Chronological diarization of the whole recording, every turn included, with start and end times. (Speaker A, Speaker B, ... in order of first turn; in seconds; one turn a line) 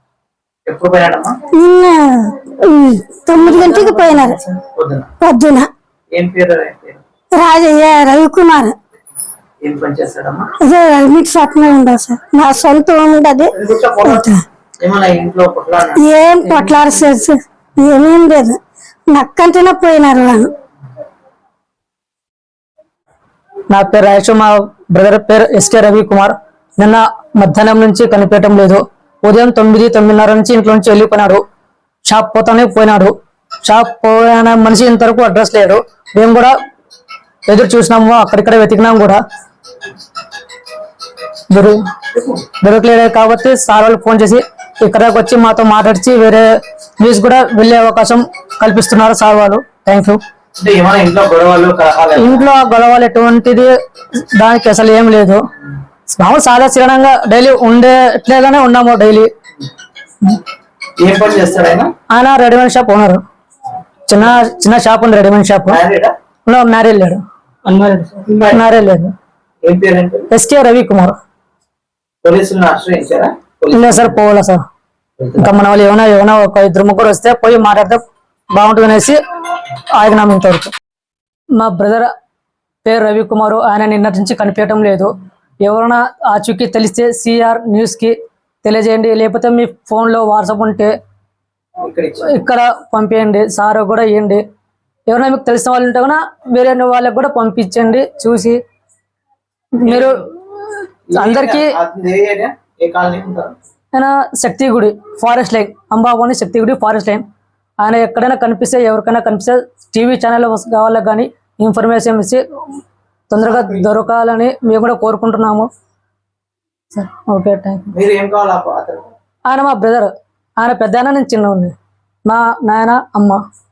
Speaker A: 0.7-1.4
Speaker B: 1.5-4.4
Speaker A: 3.4-5.1
Speaker B: 5.2-5.7
Speaker A: 6.1-7.0
Speaker B: 7.3-8.7
Speaker A: 9.6-10.5
Speaker B: 10.6-14.4
Speaker A: 13.5-14.3
Speaker A: 14.8-16.0
Speaker B: 16.0-18.6
Speaker C: 16.5-16.8
Speaker B: 19.1-20.5
Speaker C: 23.7-31.4
Speaker C: 32.0-36.5
Speaker C: 37.5-39.2
Speaker C: 41.5-41.8
Speaker C: 42.6-50.2
Speaker A: 50.6-52.5
Speaker C: 52.1-55.4
Speaker C: 56.1-59.3
Speaker A: 61.0-61.9
Speaker C: 62.1-63.2
Speaker C: 64.1-65.8
Speaker A: 65.7-66.1
Speaker C: 66.5-69.1
Speaker A: 68.2-68.6
Speaker A: 69.6-70.3
Speaker C: 70.3-71.1
Speaker A: 72.2-74.2
Speaker C: 73.7-74.6
Speaker A: 75.2-75.5
Speaker C: 75.4-79.2
Speaker C: 79.9-80.7
Speaker C: 81.5-82.1
Speaker C: 82.8-90.9
Speaker A: 91.8-92.3
Speaker C: 92.2-94.4
Speaker C: 95.1-98.6
Speaker C: 99.7-100.2
Speaker A: 99.8-100.1
Speaker A: 101.1-103.5
Speaker C: 101.1-101.7
Speaker C: 103.9-107.2
Speaker C: 107.8-112.4
Speaker C: 113.3-115.7
Speaker C: 116.9-117.9
Speaker A: 117.9-119.0
Speaker C: 119.5-123.4